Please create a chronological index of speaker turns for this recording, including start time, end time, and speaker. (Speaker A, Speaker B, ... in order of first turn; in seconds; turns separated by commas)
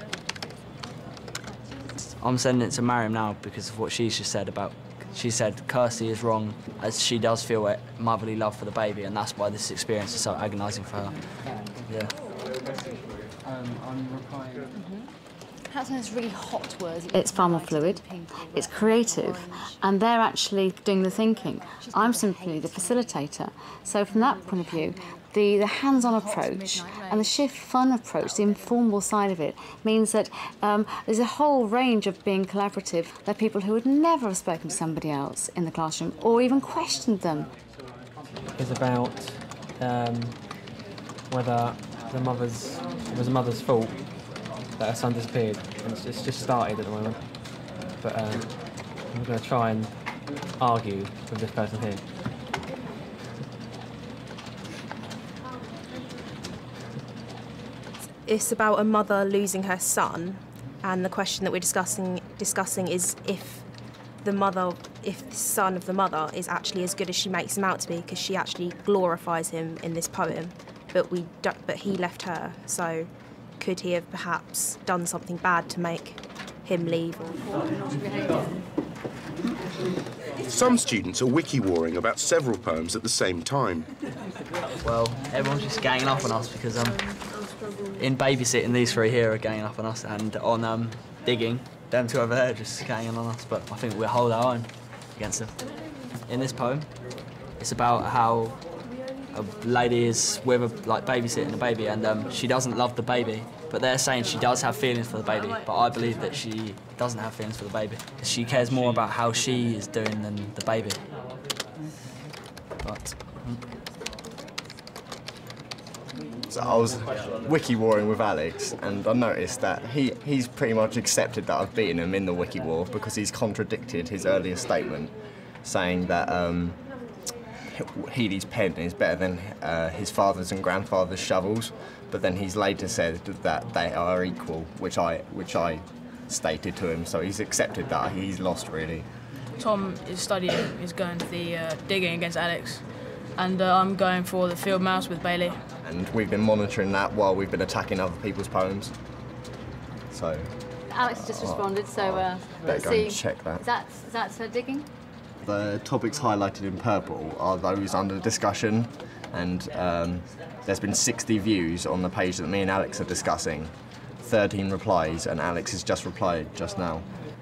Speaker A: 2.2-12.1, Speaker B: 15.7-37.5, Speaker C: 38.5-52.1, Speaker D: 58.2-77.5, Speaker E: 80.5-83.9, Speaker A: 84.8-87.2, Speaker A: 88.0-95.6, Speaker A: 96.2-97.0, Speaker A: 97.6-98.7, Speaker A: 99.3-111.0, Speaker A: 112.8-113.6, Speaker F: 116.5-126.8, Speaker F: 127.7-139.1, Speaker G: 139.6-145.6, Speaker F: 145.8-148.9, Speaker F: 150.1-153.6, Speaker B: 150.9-154.9, Speaker F: 155.4-167.1